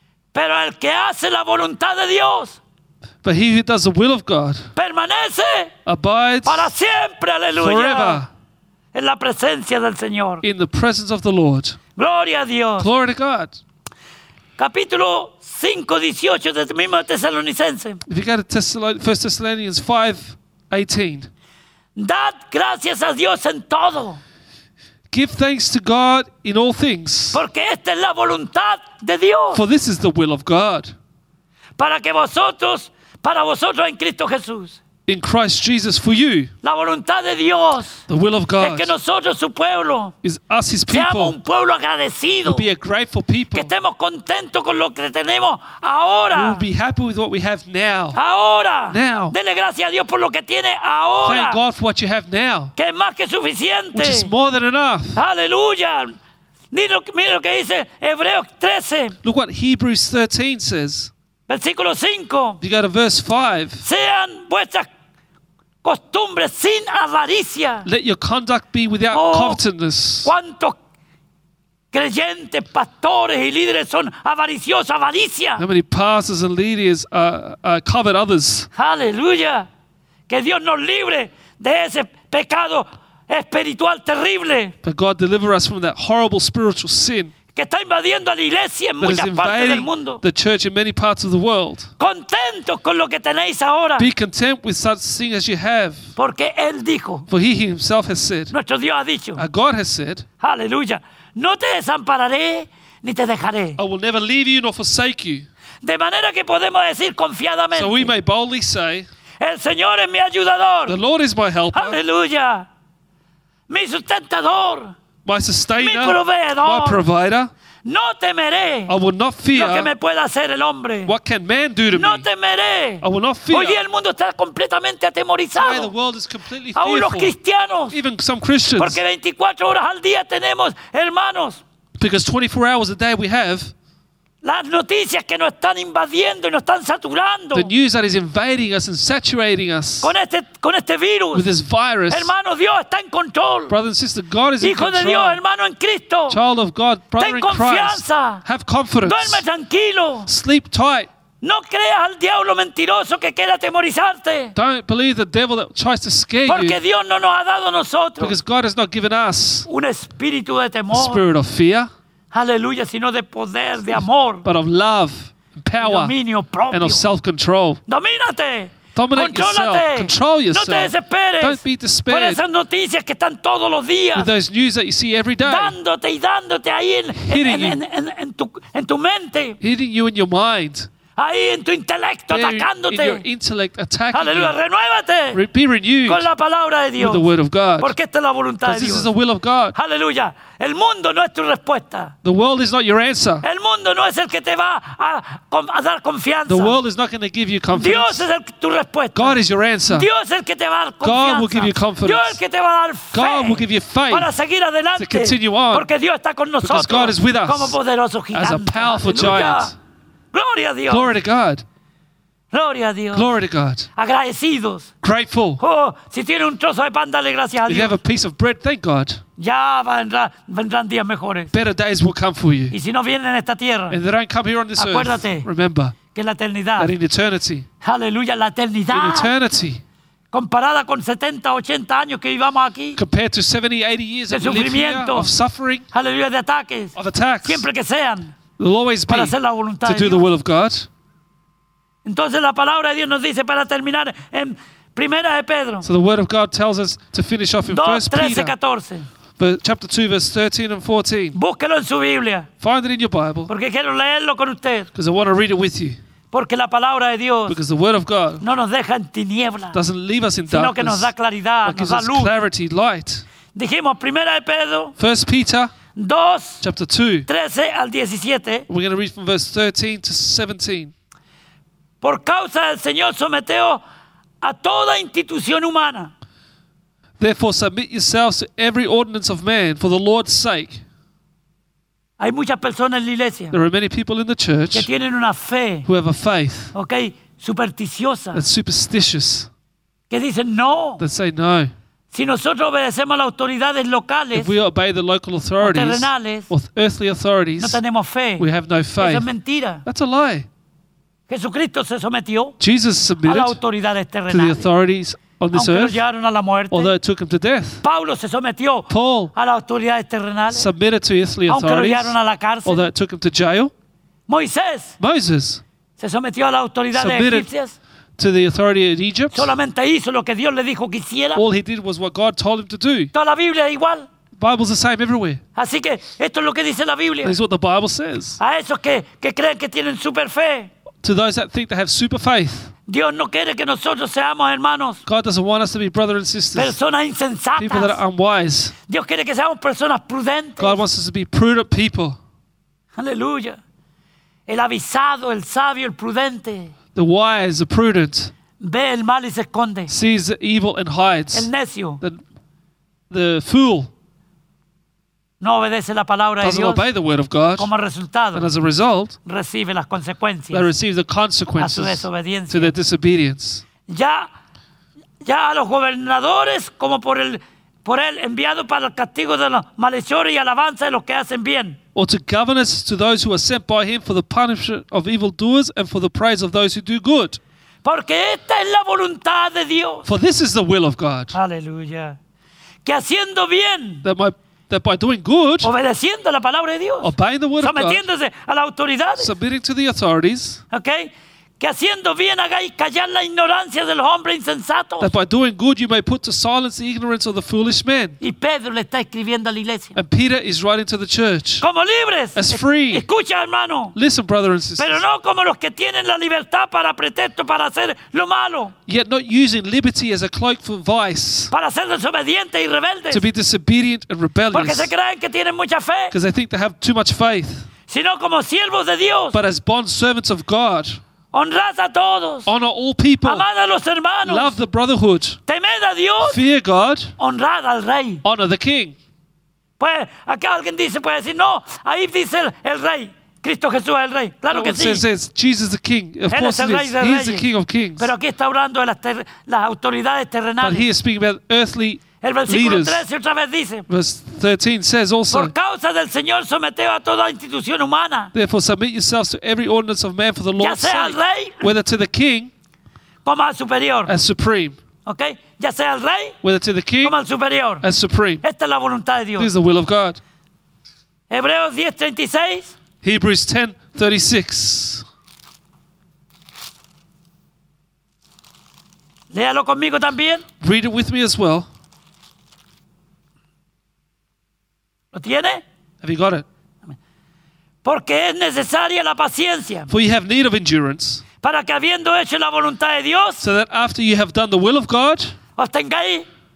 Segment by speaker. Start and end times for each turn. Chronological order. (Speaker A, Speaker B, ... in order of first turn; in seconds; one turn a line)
Speaker A: 0.3-2.6
Speaker B: 3.2-4.7
Speaker A: 4.8-5.7
Speaker B: 5.8-6.7
Speaker A: 6.4-8.2
Speaker B: 7.5-8.3
Speaker A: 8.9-10.4
Speaker B: 10.4-11.8
Speaker A: 11.9-12.9
Speaker B: 12.8-13.6
Speaker A: 14.6-18.0
Speaker B: 18.1-21.3
Speaker A: 21.9-24.2
Speaker B: 25.1-27.4
Speaker A: 27.3-29.6
Speaker B: 29.5-30.9
Speaker A: 31.8-34.8
Speaker B: 35.1-36.5
Speaker A: 36.6-38.0
Speaker B: 38.1-38.9
Speaker A: 38.6-40.1
Speaker B: 40.2-41.4
Speaker A: 40.9-42.6
Speaker B: 42.5-43.7
Speaker A: 43.5-46.6
Speaker B: 46.3-48.2
Speaker A: 48.1-51.6
Speaker B: 48.9-49.3
Speaker B: 51.2-52.7
Speaker A: 52.8-54.3
Speaker B: 53.9-55.2
Speaker A: 55.1-56.1
Speaker A: 56.7-59.1
Speaker B: 59.2-61.1
Speaker A: 61.5-62.6
Speaker B: 62.6-63.8
Speaker A: 63.8-64.9
Speaker A: 65.8-67.9
Speaker B: 67.8-70.3
Speaker A: 69.1-69.6
Speaker A: 70.2-70.8
Speaker A: 71.9-75.6
Speaker B: 75.6-78.7
Speaker A: 78.7-79.7
Speaker A: 80.3-84.8
Speaker B: 84.8-87.3
Speaker A: 87.5-90.2
Speaker B: 89.0-91.9
Speaker A: 92.0-94.1
Speaker B: 94.0-96.1
Speaker A: 96.2-97.3
Speaker B: 97.3-98.5
Speaker A: 98.5-99.4
Speaker B: 99.3-100.2
Speaker A: 100.4-103.8
Speaker B: 103.8-105.5
Speaker A: 105.8-108.1
Speaker B: 107.7-109.1
Speaker A: 109.4-111.0
Speaker B: 110.8-112.0
Speaker A: 111.7-112.7
Speaker A: 113.7-114.9
Speaker B: 115.2-117.5
Speaker A: 115.8-117.0
Speaker A: 117.8-118.9
Speaker B: 118.9-119.9
Speaker A: 119.5-121.1
Speaker B: 121.0-122.2
Speaker A: 121.9-125.9
Speaker B: 123.0-123.8
Speaker B: 125.5-127.3
Speaker A: 126.7-128.0
Speaker B: 127.9-129.0
Speaker A: 128.8-131.6
Speaker B: 132.0-133.7
Speaker A: 134.4-137.7
Speaker B: 137.5-140.1
Speaker A: 140.0-141.5
Speaker B: 141.3-142.3
Speaker A: 142.1-143.7
Speaker B: 143.7-145.4
Speaker A: 144.6-146.4
Speaker B: 146.3-149.4
Speaker A: 147.2-148.4
Speaker A: 149.0-150.3
Speaker B: 150.3-151.1
Speaker A: 151.4-154.5
Speaker B: 154.5-156.8
Speaker A: 156.4-158.3
Speaker B: 158.2-159.7
Speaker A: 159.7-161.2
Speaker B: 160.9-161.9
Speaker A: 162.3-164.4
Speaker B: 164.4-166.1
Speaker A: 165.8-167.1
Speaker B: 166.7-167.8
Speaker A: 167.9-174.3
Speaker B: 168.9-172.4
Speaker B: 174.1-175.8
Speaker A: 175.4-179.6
Speaker B: 177.2-177.8
Speaker B: 179.6-180.9
Speaker A: 181.2-183.2
Speaker B: 182.3-184.6
Speaker A: 184.1-185.4
Speaker B: 185.3-186.3
Speaker A: 186.0-187.3
Speaker B: 187.0-187.9
Speaker A: 187.8-189.1
Speaker B: 188.6-189.8
Speaker A: 189.7-192.1
Speaker B: 192.2-193.4
Speaker A: 193.4-196.8
Speaker B: 196.5-198.3
Speaker A: 197.7-209.7
Speaker B: 199.1-200.1
Speaker B: 201.0-202.4
Speaker B: 203.1-204.3
Speaker B: 204.9-205.9
Speaker B: 206.6-207.8
Speaker B: 208.3-209.7
Speaker A: 210.3-211.1
Speaker B: 210.9-211.6
Speaker A: 212.5-213.3
Speaker B: 213.1-213.9
Speaker A: 213.9-214.9
Speaker B: 215.0-215.6
Speaker A: 215.6-217.9
Speaker B: 217.7-219.2
Speaker A: 219.4-221.5
Speaker B: 221.5-222.7
Speaker A: 222.7-224.0
Speaker B: 223.9-226.0
Speaker A: 224.8-225.5
Speaker A: 226.1-226.9
Speaker B: 226.8-227.7
Speaker A: 227.8-229.3
Speaker B: 228.9-229.8
Speaker A: 230.3-233.0
Speaker B: 232.9-235.8
Speaker A: 234.3-235.3
Speaker A: 235.9-238.3
Speaker B: 236.9-237.7
Speaker B: 238.6-240.9
Speaker A: 239.1-240.2
Speaker A: 242.0-245.8
Speaker B: 245.8-248.5
Speaker A: 247.7-249.1
Speaker B: 249.4-251.4
Speaker A: 251.3-252.5
Speaker B: 252.6-253.5
Speaker A: 253.5-254.9
Speaker B: 254.9-256.0
Speaker A: 256.3-257.6
Speaker B: 257.5-258.4
Speaker A: 258.4-259.8
Speaker B: 259.7-261.1
Speaker A: 260.5-262.3
Speaker B: 261.6-263.2
Speaker A: 263.5-264.9
Speaker B: 265.0-265.7
Speaker A: 265.9-266.6
Speaker B: 266.6-267.3
Speaker A: 267.3-268.7
Speaker B: 268.7-270.9
Speaker A: 272.0-273.8
Speaker A: 274.4-276.1
Speaker B: 277.2-280.8
Speaker A: 282.2-283.5
Speaker B: 283.5-284.9
Speaker A: 284.7-285.9
Speaker B: 285.8-286.7
Speaker A: 286.7-288.4
Speaker B: 288.3-289.5
Speaker A: 290.1-291.0
Speaker B: 291.0-291.7
Speaker A: 292.1-294.5
Speaker B: 294.3-297.8
Speaker A: 295.6-296.5
Speaker A: 297.6-298.4
Speaker B: 298.4-299.3
Speaker A: 299.0-299.8
Speaker B: 299.8-300.5
Speaker A: 301.3-302.6
Speaker B: 302.6-303.6
Speaker A: 303.2-304.6
Speaker B: 304.3-306.0
Speaker A: 305.5-306.9
Speaker B: 306.7-307.8
Speaker A: 307.8-310.7
Speaker B: 308.9-309.3
Speaker B: 310.5-313.7
Speaker A: 311.5-312.9
Speaker A: 314.3-314.9
Speaker B: 315.0-315.6
Speaker A: 316.0-317.8
Speaker B: 316.9-317.5
Speaker B: 318.2-319.5
Speaker A: 319.3-321.4
Speaker B: 321.3-323.1
Speaker A: 323.1-324.1
Speaker B: 324.4-325.4
Speaker A: 325.6-327.4
Speaker B: 327.2-328.4
Speaker A: 328.4-330.7
Speaker B: 331.0-332.7
Speaker A: 332.9-335.0
Speaker B: 335.0-336.7
Speaker A: 336.5-338.0
Speaker B: 337.6-338.7
Speaker A: 338.9-340.8
Speaker B: 340.6-342.2
Speaker A: 343.0-343.6
Speaker A: 344.5-346.7
Speaker B: 346.9-348.3
Speaker A: 348.6-349.9
Speaker B: 349.9-351.5
Speaker A: 351.3-352.0
Speaker B: 353.1-353.9
Speaker A: 355.4-356.8
Speaker B: 356.4-357.7
Speaker A: 357.6-358.5
Speaker B: 358.3-359.2
Speaker A: 359.2-360.7
Speaker B: 360.5-363.6
Speaker A: 361.6-362.7
Speaker A: 363.9-364.3
Speaker A: 365.2-371.8
Speaker B: 371.9-377.4
Speaker A: 377.8-380.1
Speaker B: 380.0-381.3
Speaker A: 381.3-382.2
Speaker A: 382.8-384.0
Speaker B: 384.0-385.7
Speaker A: 385.6-389.3
Speaker B: 387.0-388.0
Speaker B: 389.2-390.6
Speaker A: 390.7-395.1
Speaker B: 395.0-398.2
Speaker A: 398.2-400.0
Speaker B: 399.9-401.6
Speaker A: 401.6-403.9
Speaker B: 402.3-403.1
Speaker B: 403.9-405.0
Speaker A: 404.8-408.7
Speaker B: 408.9-411.5
Speaker A: 411.5-413.2
Speaker B: 413.1-414.9
Speaker A: 414.5-416.1
Speaker B: 416.1-417.7
Speaker A: 417.9-419.4
Speaker B: 419.3-421.0
Speaker A: 421.3-422.5
Speaker B: 422.4-423.4
Speaker A: 423.2-424.5
Speaker B: 424.2-425.4
Speaker A: 425.5-426.4
Speaker B: 426.2-427.1
Speaker A: 427.2-428.2
Speaker B: 428.2-428.9
Speaker A: 429.8-435.0
Speaker B: 434.5-438.1
Speaker A: 436.3-440.9
Speaker B: 440.6-443.0
Speaker A: 442.2-443.9
Speaker B: 443.9-445.5
Speaker A: 445.3-448.3
Speaker B: 448.3-452.5
Speaker A: 450.6-451.7
Speaker A: 453.2-454.1
Speaker B: 454.1-454.8
Speaker A: 455.1-456.4
Speaker B: 456.4-457.1
Speaker A: 457.0-457.8
Speaker B: 457.8-458.4
Speaker A: 458.4-459.5
Speaker B: 459.4-460.2
Speaker A: 461.3-462.7
Speaker B: 463.0-465.1
Speaker A: 469.3-470.4
Speaker B: 470.6-471.7
Speaker A: 475.1-475.6
Speaker B: 476.0-476.4
Speaker A: 477.8-479.9
Speaker B: 479.9-481.2
Speaker A: 481.4-483.4
Speaker B: 483.4-485.3
Speaker A: 485.6-486.2